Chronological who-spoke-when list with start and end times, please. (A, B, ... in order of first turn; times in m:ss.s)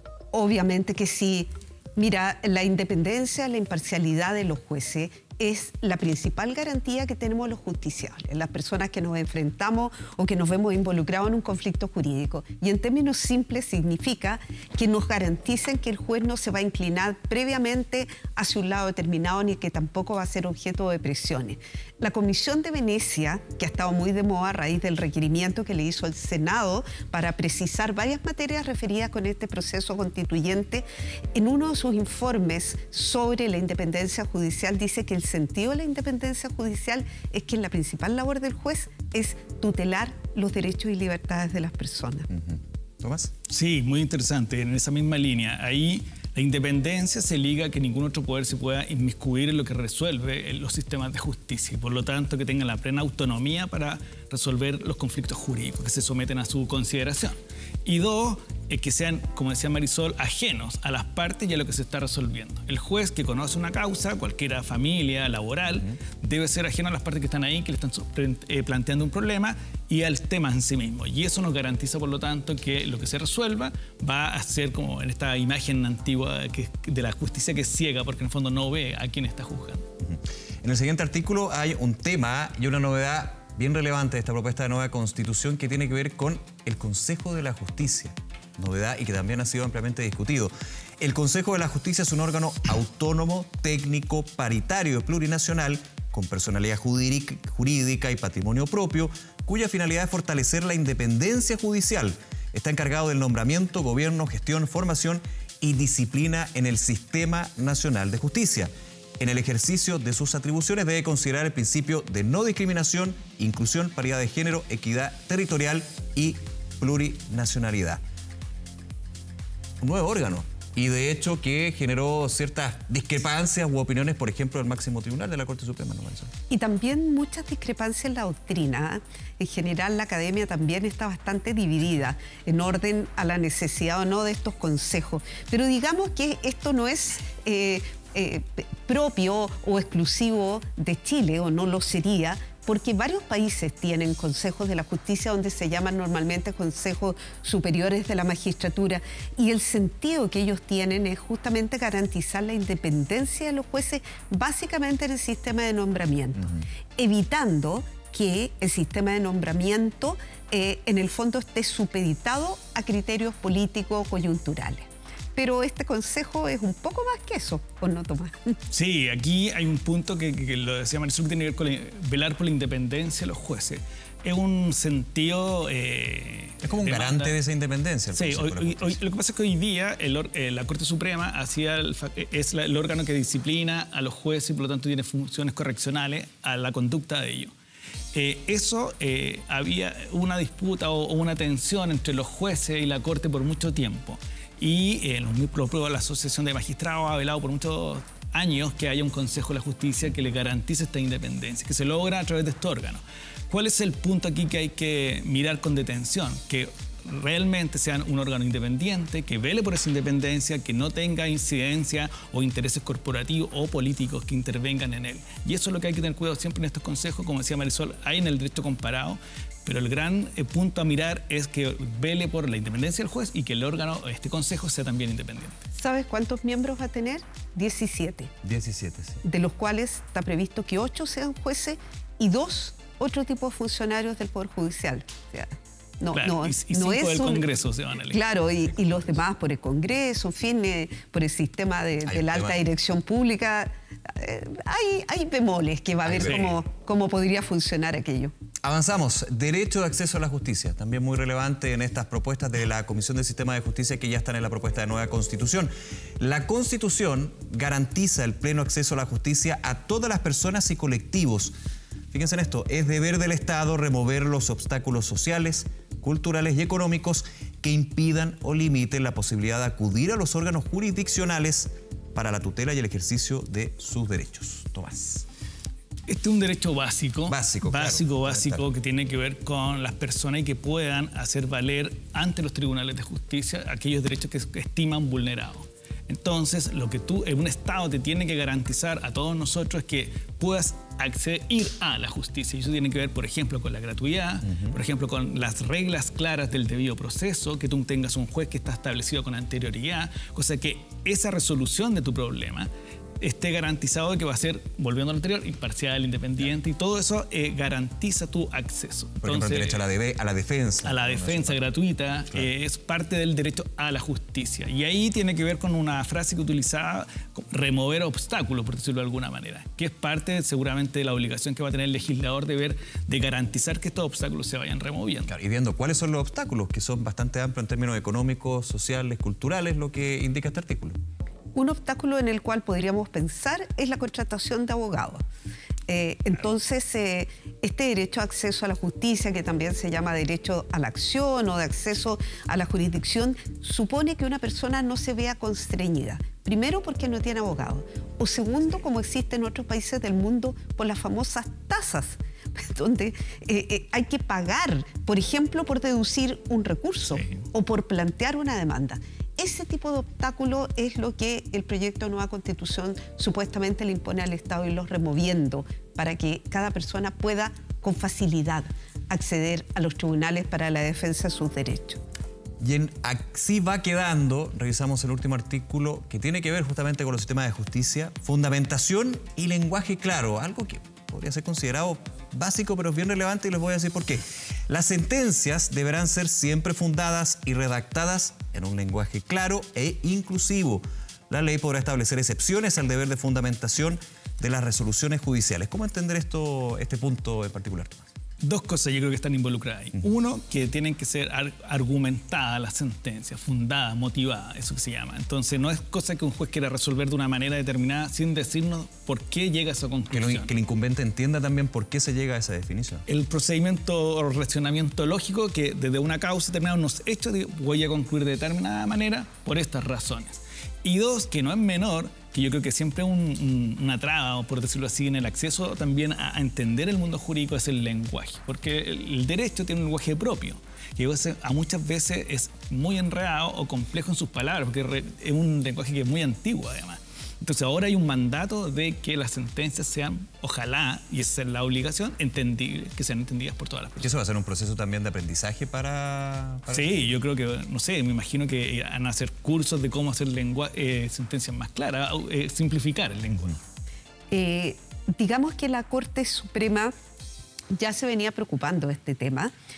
0:00.3-0:42.3 A
0:42.3-0:43.3 B
0:43.5-1:19.8 C
1:20.0-1:58.0 B
1:59.8-2:06.3 B
2:06.5-2:48.6 A
2:48.7-2:57.4 C
2:56.6-2:59.0 B
2:58.1-3:07.5 C
3:08.1-3:45.6 C
3:45.8-3:48.3 A
3:48.4-3:49.2 B
3:49.2-3:57.5 A
3:56.1-3:58.2 C
3:58.1-4:08.3 A
4:02.1-4:02.6 B
4:06.0-4:06.5 B
4:08.6-4:21.5 B
4:22.1-4:35.2 B
4:36.1-5:02.7 C
4:37.3-4:38.7 B
4:54.5-4:54.8 B
5:03.2-5:09.8 C
5:09.2-5:11.6 B
5:10.8-5:25.3 C
5:25.3-5:31.0 B
5:31.5-5:35.2 A
5:35.9-6:12.0 A
6:12.6-6:38.0 B
6:38.4-6:50.5 C
6:50.1-6:53.0 B
6:53.1-7:24.0 C
7:24.0-7:27.1 B
7:26.7-7:33.6 C
7:34.3-7:36.9 A
7:37.7-7:39.5 A